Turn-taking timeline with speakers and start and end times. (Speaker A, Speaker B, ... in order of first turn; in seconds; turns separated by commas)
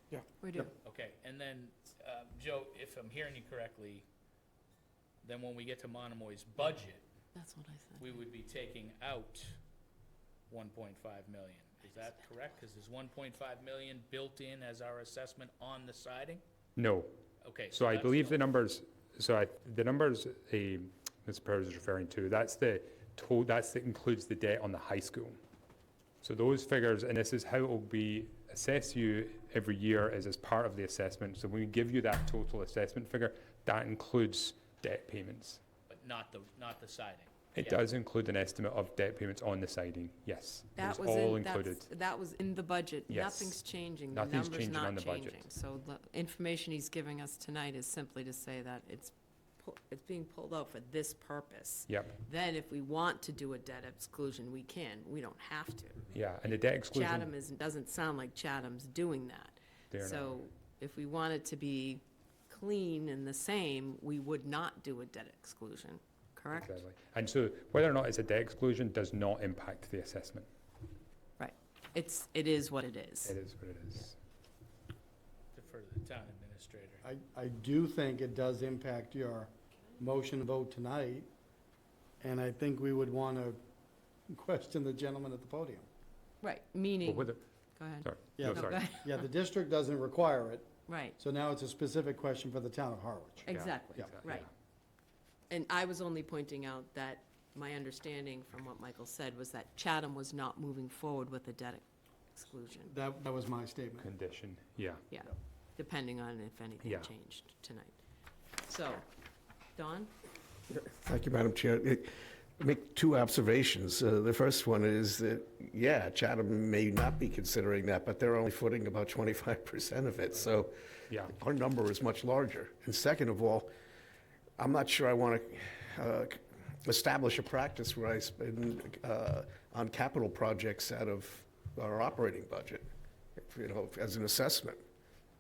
Speaker A: 0.4-0.7, Speaker B: 0.7-4.1, Speaker B: 5.2-7.1, Speaker A: 7.3-8.1, Speaker B: 8.0-9.6, Speaker B: 10.5-16.4, Speaker C: 16.8-17.1, Speaker B: 17.4-18.5, Speaker C: 17.7-25.4, Speaker C: 26.2-35.6, Speaker B: 35.9-37.8, Speaker C: 37.6-41.9, Speaker A: 40.8-56.1, Speaker C: 43.1-45.5, Speaker C: 56.1-57.3, Speaker A: 56.9-66.8, Speaker C: 59.9-60.5, Speaker C: 66.5-70.5, Speaker A: 71.4-73.4, Speaker C: 73.2-74.2, Speaker B: 75.5-77.0, Speaker D: 77.0-81.3, Speaker D: 82.2-83.6, Speaker D: 84.3-85.9, Speaker A: 86.4-89.3, Speaker C: 87.0-87.4, Speaker C: 88.0-88.8, Speaker D: 88.4-94.1, Speaker A: 90.9-91.2, Speaker C: 93.5-94.5, Speaker A: 93.5-94.5, Speaker A: 95.5-101.8, Speaker A: 102.3-102.9, Speaker D: 102.9-104.1, Speaker C: 104.0-105.0, Speaker A: 105.1-107.9, Speaker C: 106.8-107.1, Speaker A: 108.7-109.0, Speaker A: 109.8-110.1, Speaker E: 110.7-123.7, Speaker E: 124.6-134.8